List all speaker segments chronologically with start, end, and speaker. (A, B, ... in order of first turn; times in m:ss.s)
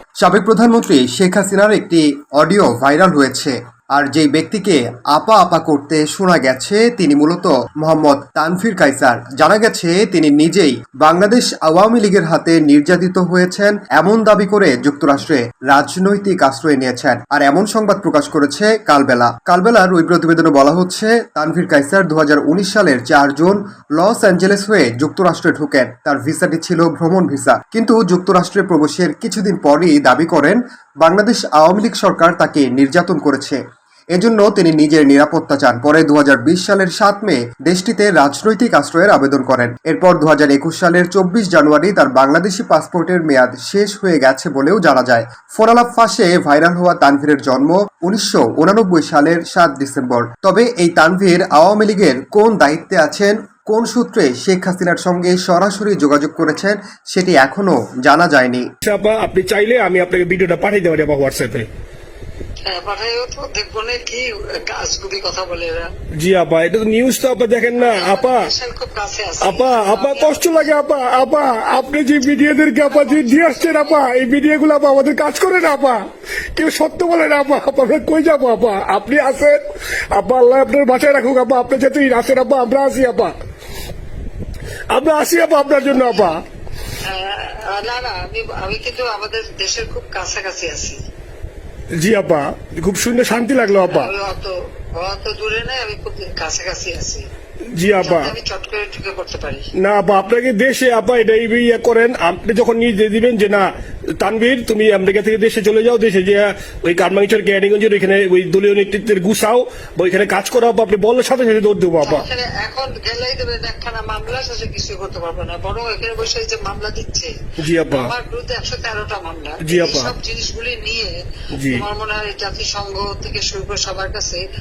0:00.2-0:33.6 A
0:34.2-0:58.6 A
0:58.8-1:01.7 B
1:02.7-1:05.9 C
1:06.2-1:08.5 B
1:07.8-1:10.8 C
1:09.4-1:16.0 B
1:12.8-1:14.1 C
1:16.6-1:19.6 B
1:20.1-1:23.4 B
1:24.9-1:26.4 B
1:27.0-1:31.0 C
1:32.0-1:34.1 B
1:33.7-1:37.2 C
1:37.8-1:38.3 B
1:38.0-1:39.7 C
1:39.8-1:52.3 B
1:52.0-1:57.3 C
1:57.6-1:58.1 B
1:57.9-2:01.2 C
1:59.6-2:00.1 B
2:01.5-2:01.8 B
2:01.7-2:04.4 C